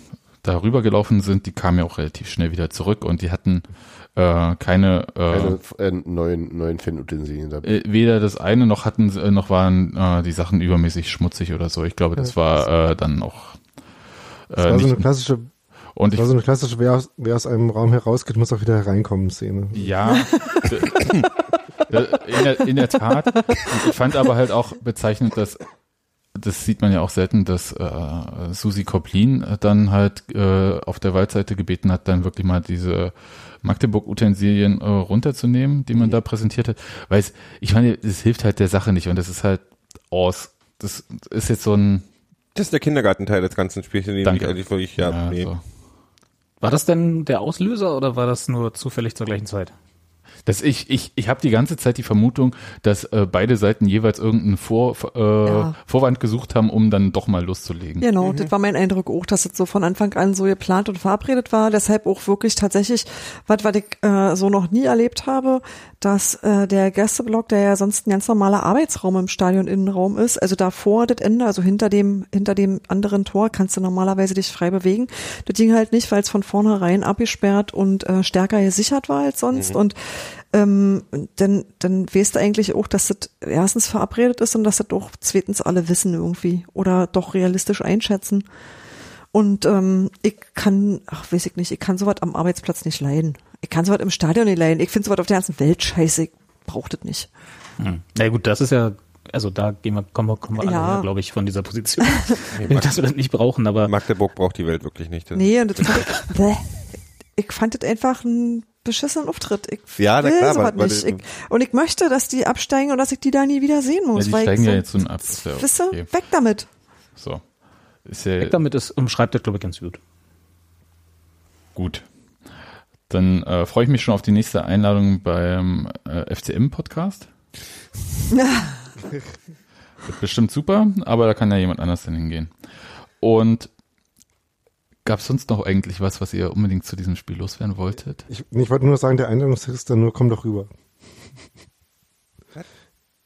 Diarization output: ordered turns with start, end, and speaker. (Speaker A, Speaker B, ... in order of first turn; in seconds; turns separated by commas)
Speaker A: 0.4-5.6, Speaker B: 5.3-7.7, Speaker A: 7.6-13.6, Speaker A: 14.5-15.0, Speaker C: 14.6-15.5, Speaker A: 15.9-16.3, Speaker C: 16.1-19.9, Speaker A: 19.7-21.2, Speaker D: 20.1-20.6, Speaker A: 21.9-25.6, Speaker A: 26.3-42.0, Speaker E: 42.5-45.5, Speaker A: 44.2-45.6, Speaker F: 46.6-49.7, Speaker A: 50.5-58.1, Speaker D: 55.4-55.7, Speaker D: 58.0-80.0, Speaker E: 58.2-58.5, Speaker E: 79.5-79.8, Speaker D: 80.5-88.5, Speaker D: 89.3-97.3, Speaker F: 97.8-103.9, Speaker D: 100.6-101.1, Speaker E: 102.5-102.9, Speaker E: 103.8-106.0, Speaker D: 105.3-106.8, Speaker D: 107.3-116.7, Speaker E: 110.0-111.2, Speaker A: 114.1-116.1, Speaker A: 117.2-117.4, Speaker A: 118.0-118.5, Speaker F: 118.4-120.0, Speaker A: 121.8-122.0, Speaker A: 123.1-127.3, Speaker D: 128.3-128.7, Speaker A: 130.1-132.5, Speaker A: 133.2-133.7, Speaker A: 135.0-138.2, Speaker C: 138.3-140.7